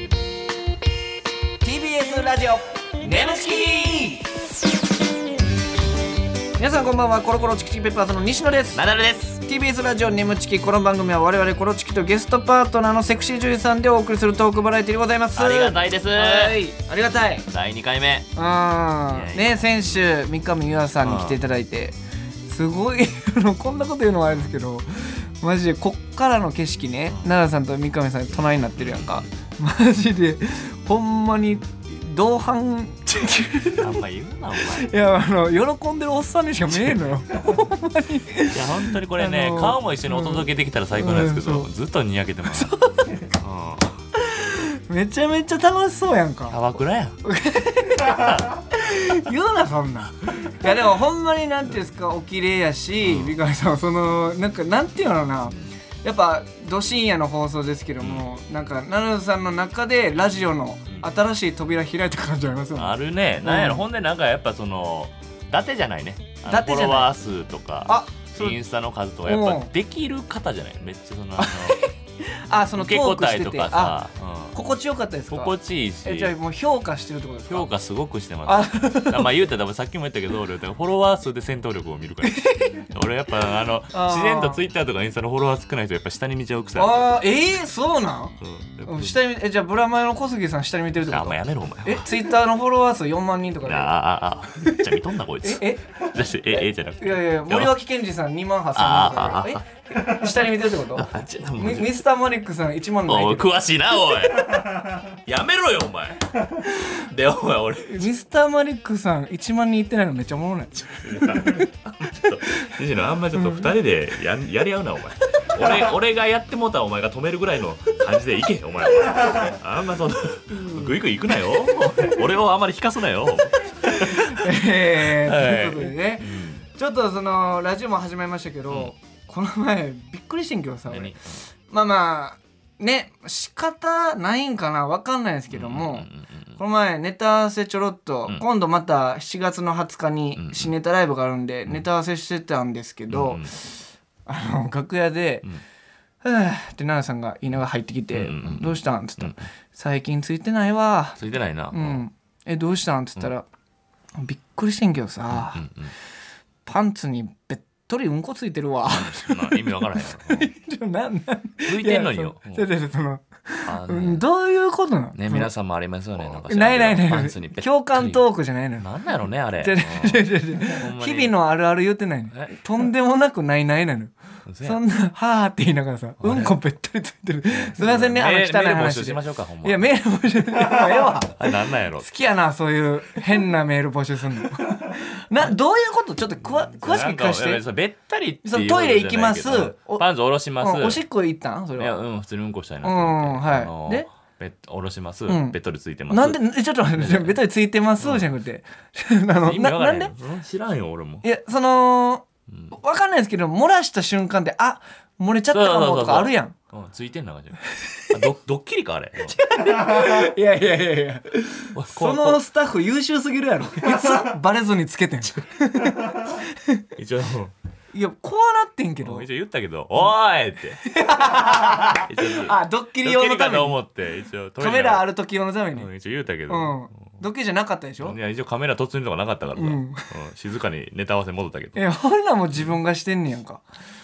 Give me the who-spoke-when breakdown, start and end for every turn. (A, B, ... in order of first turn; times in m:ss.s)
0:01.6-0:04.3 A
0:06.6-0:08.8 A
0:08.7-0:09.4 B
0:09.4-0:17.5 A
0:15.4-0:16.6 B
0:17.5-0:18.3 B
0:18.4-0:34.0 A
0:19.1-0:19.8 B
0:21.0-0:21.4 B
0:28.8-0:29.3 B
0:33.8-0:34.9 B
0:34.6-0:41.7 A
0:36.7-0:37.1 B
0:38.5-0:42.7 B
0:42.5-0:43.2 A
0:43.4-0:44.0 B
0:44.2-0:46.6 A
0:46.5-0:47.2 B
0:47.2-1:03.8 A
0:53.0-0:53.4 B
0:58.0-0:58.3 B
1:02.8-1:11.8 B
1:06.5-1:07.1 A
1:07.9-1:08.6 A
1:09.2-1:09.7 A
1:11.4-1:14.0 A
1:12.8-1:14.6 B
1:14.5-1:17.7 A
1:15.3-1:16.4 B
1:17.5-1:27.1 B
1:18.4-1:19.3 A
1:22.2-1:22.8 A
1:23.9-1:24.6 A
1:26.8-1:33.9 A
1:28.4-1:29.2 B
1:31.0-1:32.1 B
1:33.6-1:37.8 B
1:34.6-1:35.9 A
1:36.5-1:43.6 A
1:38.8-1:40.2 B
1:41.0-1:42.0 B
1:43.1-1:48.1 B
1:47.9-1:51.7 A
1:51.0-2:04.5 B
1:53.3-1:53.8 A
2:00.5-2:01.0 A
2:03.9-2:11.2 A
2:05.0-2:06.6 B
2:10.9-2:11.4 B
2:11.7-2:23.7 A
2:15.5-2:16.6 B
2:20.4-2:20.7 B
2:23.1-2:23.5 B
2:24.3-2:25.5 A
2:26.2-2:31.2 A
2:28.1-2:29.4 B
2:31.2-2:32.0 B
2:31.7-2:33.4 A
2:34.2-2:35.6 A
2:35.3-2:35.9 B
2:36.7-2:45.5 A
2:38.9-2:40.5 B
2:41.7-2:42.7 B
2:43.7-2:44.2 B
2:45.2-2:48.2 B
2:46.2-2:48.9 A
2:48.8-2:51.4 B
2:49.6-3:01.4 A
2:52.3-2:52.6 B
2:54.5-2:54.8 B
2:56.2-2:56.6 B
2:57.5-2:59.9 B
3:01.4-3:02.1 B
3:02.0-3:07.6 A
3:06.6-3:11.0 B
3:08.4-3:10.1 A
3:10.6-3:12.0 A
3:11.8-3:17.4 B
3:12.8-3:14.1 A
3:15.3-3:15.6 A
3:16.1-3:20.1 A
3:18.0-3:18.3 B
3:19.4-3:21.2 B
3:21.2-3:26.6 A
3:22.5-3:22.7 B
3:25.5-3:29.4 B
3:29.3-3:36.8 A
3:31.7-3:32.4 B
3:37.0-3:37.5 B
3:37.9-3:39.3 A
3:39.0-3:45.1 B
3:40.9-3:43.8 A
3:44.6-3:45.9 A
3:45.7-3:47.1 B
3:46.5-3:48.2 A
3:48.0-3:51.8 B
3:49.6-3:50.0 A
3:51.8-3:53.6 A